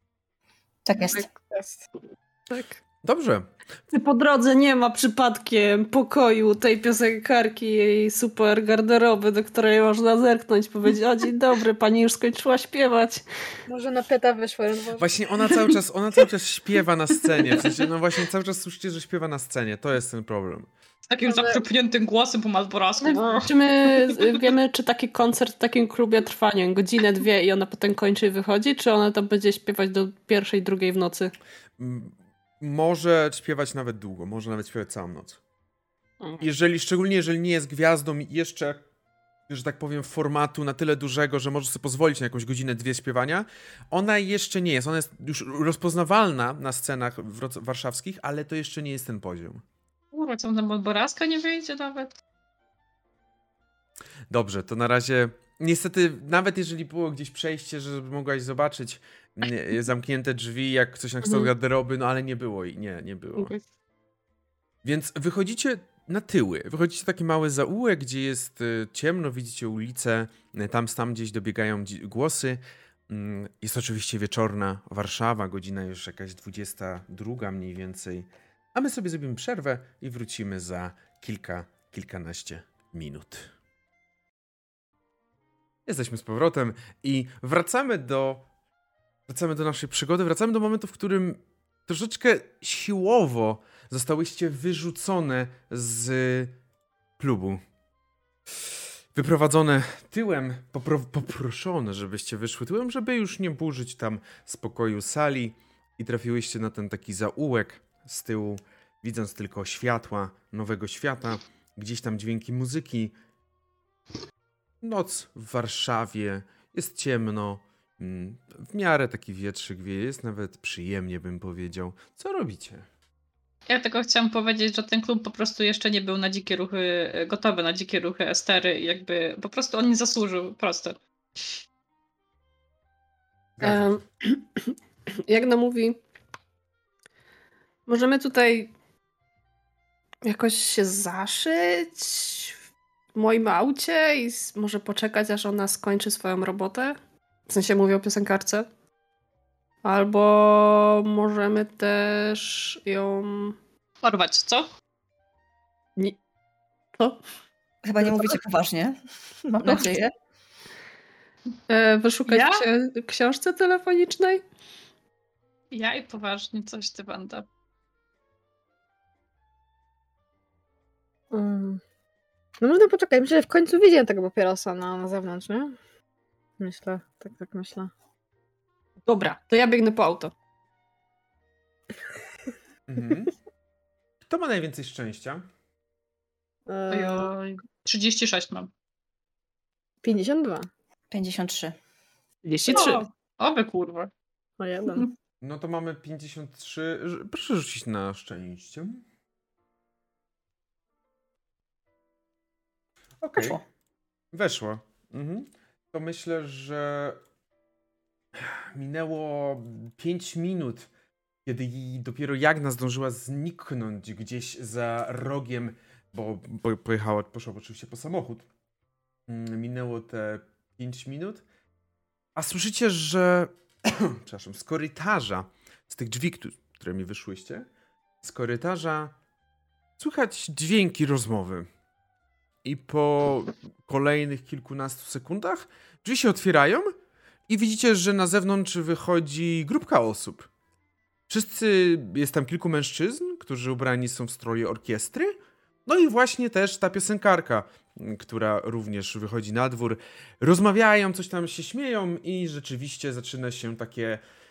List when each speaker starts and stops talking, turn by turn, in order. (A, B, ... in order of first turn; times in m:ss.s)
0:00.8-0:01.2 A
0:01.5-0:01.8 B
0:02.5-0:02.8 C
0:03.0-0:03.5 D
0:03.9-0:13.2 C
0:13.7-0:15.1 B
0:15.0-0:20.7 D
0:21.1-0:23.5 E
0:21.2-0:21.6 B
0:23.0-0:31.3 C
0:31.8-0:35.4 D
0:36.4-0:38.8 D
0:39.5-0:49.6 D
0:50.1-0:52.1 E
0:54.3-1:03.5 D
1:01.2-1:01.5 C
1:03.4-1:03.6 C
1:04.8-1:23.5 D
1:25.8-1:28.5 D
1:29.3-1:36.6 D
1:37.2-1:37.6 D
1:39.1-1:53.2 D
1:54.8-2:02.8 D
2:03.7-2:11.5 E
2:13.6-2:14.0 D
2:13.6-2:16.0 C
2:17.9-2:18.7 C
2:20.2-2:22.6 C
2:23.1-2:28.7 C
2:29.8-2:33.6 C
2:34.0-2:34.7 E
2:36.9-2:37.2 C
2:37.8-2:40.1 A
2:38.0-2:38.4 C
2:39.6-2:39.9 C
2:41.7-2:44.4 C
2:42.3-2:42.6 E
2:45.7-2:47.4 E
2:51.3-2:51.8 B
2:52.6-2:55.7 B
2:56.6-2:57.9 B
2:59.0-3:00.3 C
3:02.9-3:03.3 D
3:04.3-3:05.4 D
3:06.7-3:07.3 B
3:06.9-3:08.7 E
3:10.0-3:10.7 B
3:11.1-3:11.7 A
3:12.4-3:13.0 C
3:12.7-3:14.1 E
3:14.6-3:15.1 B
3:15.4-3:19.0 D
3:23.2-3:23.6 D
3:23.4-3:23.6 A
3:24.3-3:27.2 D
3:28.4-3:30.9 D
3:31.4-3:38.4 D
3:39.3-3:41.4 D
3:42.4-3:47.7 D
3:48.2-3:49.1 D
3:50.0-3:51.7 D
3:52.6-3:56.9 D
3:57.5-4:00.5 D
4:01.3-4:14.2 D